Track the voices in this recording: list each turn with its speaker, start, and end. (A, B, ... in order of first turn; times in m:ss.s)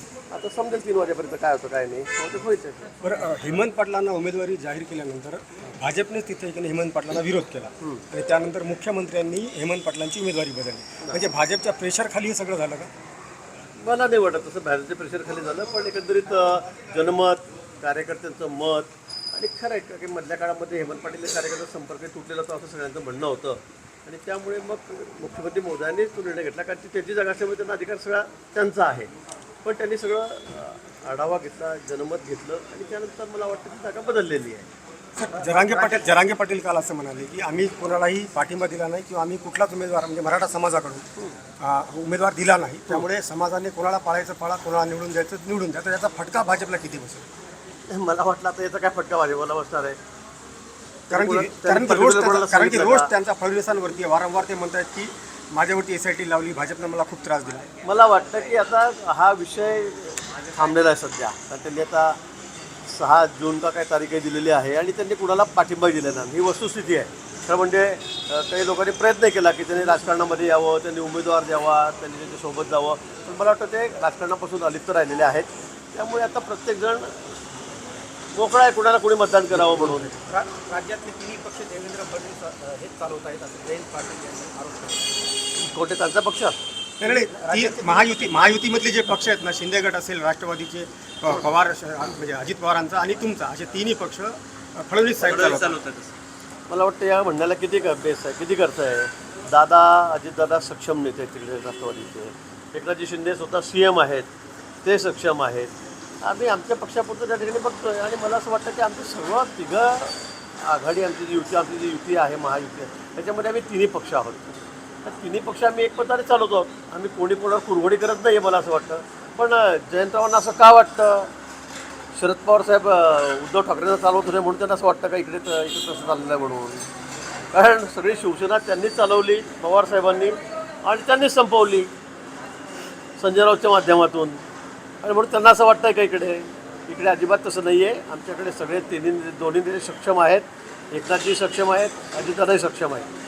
0:00.3-0:02.9 A
0:03.0-0:12.9 B
0:13.8-0:29.1 A
0:29.6-0:34.7 A
0:35.2-0:41.1 B
0:35.4-0:36.0 A
0:41.6-0:47.3 B
0:47.9-0:50.0 A
0:51.1-0:53.1 A
0:51.1-0:57.7 B
0:57.8-1:02.2 A
1:02.9-1:17.3 A
1:18.4-1:20.1 A
1:19.7-1:20.1 B
1:20.2-1:25.1 C
1:25.6-1:26.6 A
1:27.0-1:35.8 B
1:27.0-1:28.9 C
1:35.2-1:36.1 C
1:36.7-1:44.3 A
1:44.8-1:45.7 A
1:46.2-2:01.3 A
2:02.2-2:06.9 A
2:07.5-2:11.9 A
2:13.2-2:14.4 A
2:15.0-2:23.1 A